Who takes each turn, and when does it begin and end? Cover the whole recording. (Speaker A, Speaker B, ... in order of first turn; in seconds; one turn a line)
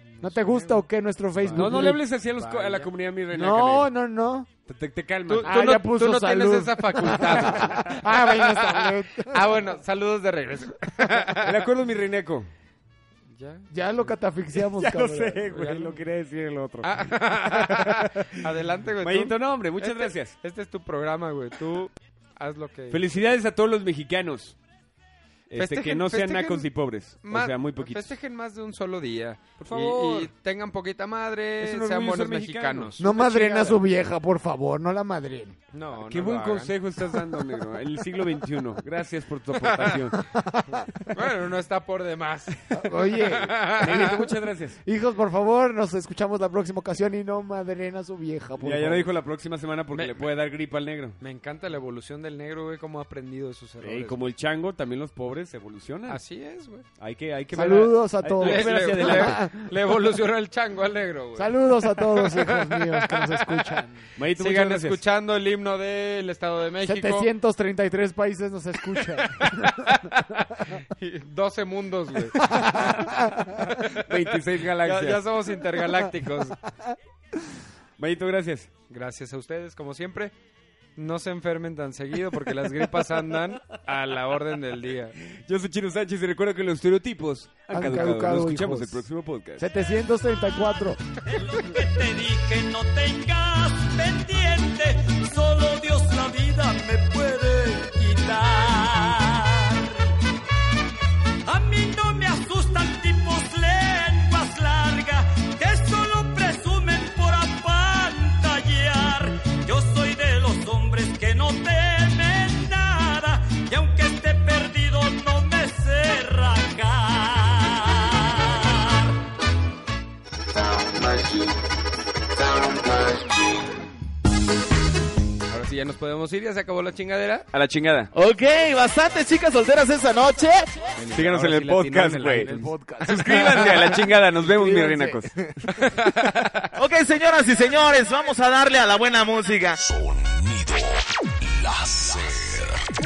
Speaker A: 0.1-0.8
Speaker B: 0.2-2.0
Speaker A: 1.4-2.9
Speaker C: 1.5-3.9
Speaker B: 3.3-4.5
Speaker C: 4.7-5.6
Speaker A: 5.3-11.6
Speaker B: 5.4-9.5
Speaker C: 11.4-12.5
Speaker A: 13.3-14.1
Speaker B: 13.7-15.7
Speaker C: 14.6-18.3
Speaker A: 15.5-16.0
Speaker A: 16.8-23.0
Speaker C: 19.0-20.3
Speaker C: 22.9-24.6
Speaker C: 25.5-28.1
Speaker A: 25.6-26.7
Speaker A: 27.2-33.0
Speaker C: 29.6-30.3
Speaker C: 31.6-33.8
Speaker B: 33.0-35.6
Speaker A: 35.7-36.7
Speaker C: 36.0-40.2
Speaker A: 39.6-40.0
Speaker B: 40.4-40.8
Speaker A: 41.1-42.6
Speaker B: 42.7-43.8
Speaker A: 43.1-44.1
Speaker C: 43.8-44.8
Speaker B: 44.8-49.1
Speaker C: 48.6-51.2
Speaker A: 49.9-50.3
Speaker A: 51.2-54.2
Speaker C: 53.8-56.2
Speaker A: 56.1-56.9
Speaker C: 57.0-59.4
Speaker B: 57.5-59.7
Speaker A: 58.4-63.7
Speaker B: 61.3-64.0
Speaker C: 64.2-65.0
Speaker A: 64.4-67.3
Speaker B: 66.8-69.7
Speaker A: 69.4-72.4
Speaker B: 72.4-73.5
Speaker C: 74.1-75.2
Speaker A: 74.8-76.6
Speaker C: 78.0-78.7
Speaker A: 78.9-80.3
Speaker A: 81.0-85.2
Speaker C: 85.3-89.7
Speaker B: 87.7-89.0
Speaker B: 89.6-91.0
Speaker D: 93.0-93.6
Speaker D: 95.4-96.5
Speaker D: 98.5-99.2
Speaker D: 101.8-102.3
Speaker D: 103.0-103.4
Speaker D: 104.6-104.9
Speaker D: 105.9-109.0
Speaker D: 109.8-111.1
Speaker D: 111.8-112.5
Speaker D: 113.1-117.5
Speaker E: 120.3-121.6
Speaker E: 122.2-123.7
Speaker A: 125.5-127.5
Speaker C: 127.5-128.1
Speaker E: 128.1-130.9
Speaker A: 131.0-133.7
Speaker C: 131.1-132.5
Speaker B: 132.4-135.3
Speaker C: 133.0-135.4
Speaker A: 135.8-136.5
Speaker E: 136.8-139.8
Speaker F: 139.7-142.8